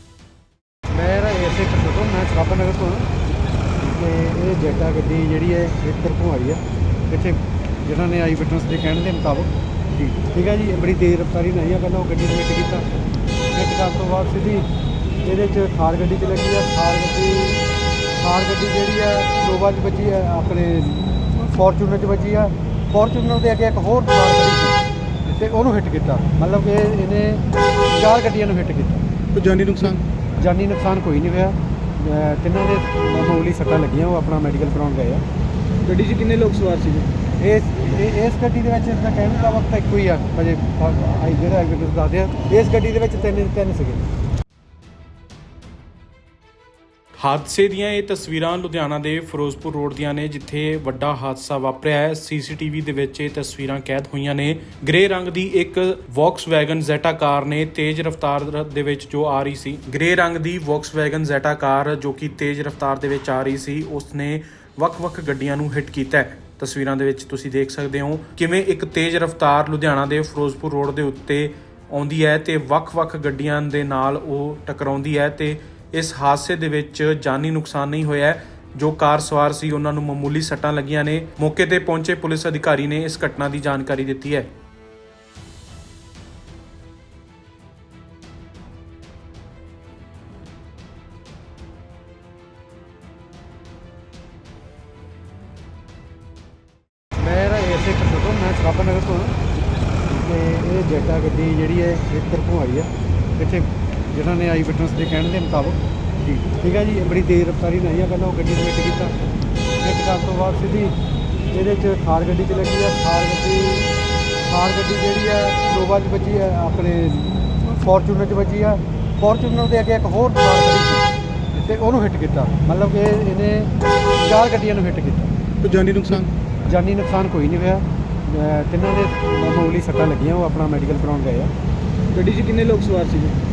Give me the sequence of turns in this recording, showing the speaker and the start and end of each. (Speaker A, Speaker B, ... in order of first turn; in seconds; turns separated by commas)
Speaker A: 0.9-3.1, Speaker A: 3.8-12.8, Speaker A: 13.5-14.7, Speaker A: 15.2-17.6, Speaker A: 18.2-29.1, Speaker B: 29.4-29.9, Speaker A: 30.4-35.2, Speaker B: 35.9-37.1, Speaker A: 37.4-44.0, Speaker C: 47.2-84.5, Speaker A: 97.2-99.4, Speaker A: 100.1-109.1, Speaker A: 109.8-110.9, Speaker A: 111.5-113.9, Speaker A: 114.5-125.3, Speaker B: 125.6-126.2, Speaker A: 126.7-131.5, Speaker B: 132.1-133.4